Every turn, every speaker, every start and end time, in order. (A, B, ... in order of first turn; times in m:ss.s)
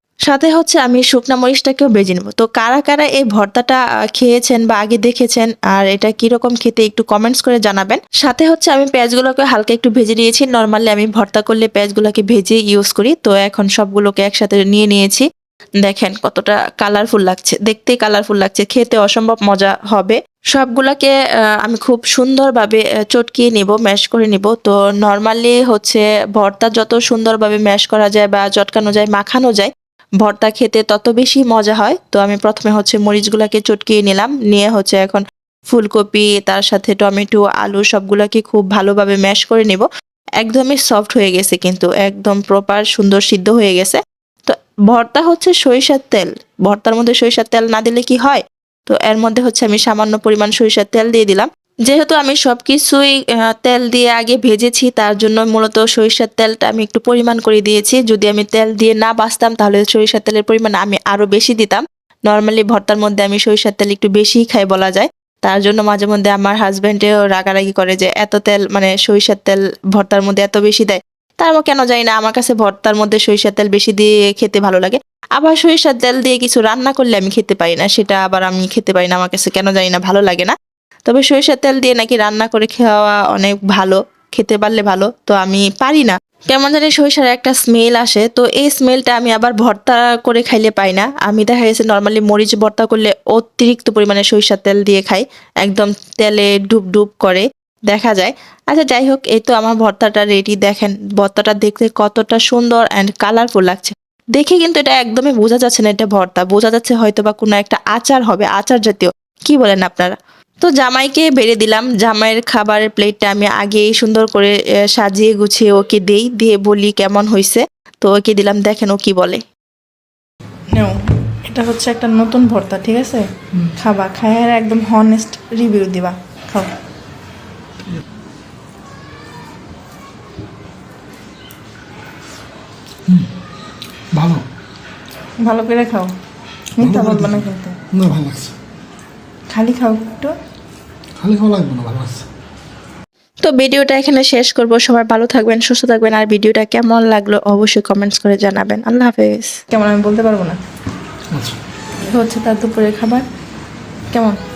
0:00.3-0:15.2 A
0:15.8-0:29.7 A
0:30.2-0:39.8 A
0:40.4-1:20.5 A
1:21.1-1:59.4 A
2:00.8-2:03.2 B
2:03.8-2:06.7 B
2:14.1-2:14.4 C
2:15.4-2:16.1 B
2:16.8-2:17.8 B
2:16.8-2:18.5 C
2:19.5-2:20.3 B
2:21.2-2:22.2 C
2:23.4-2:29.6 A
2:29.7-2:30.6 B
2:32.1-2:33.2 B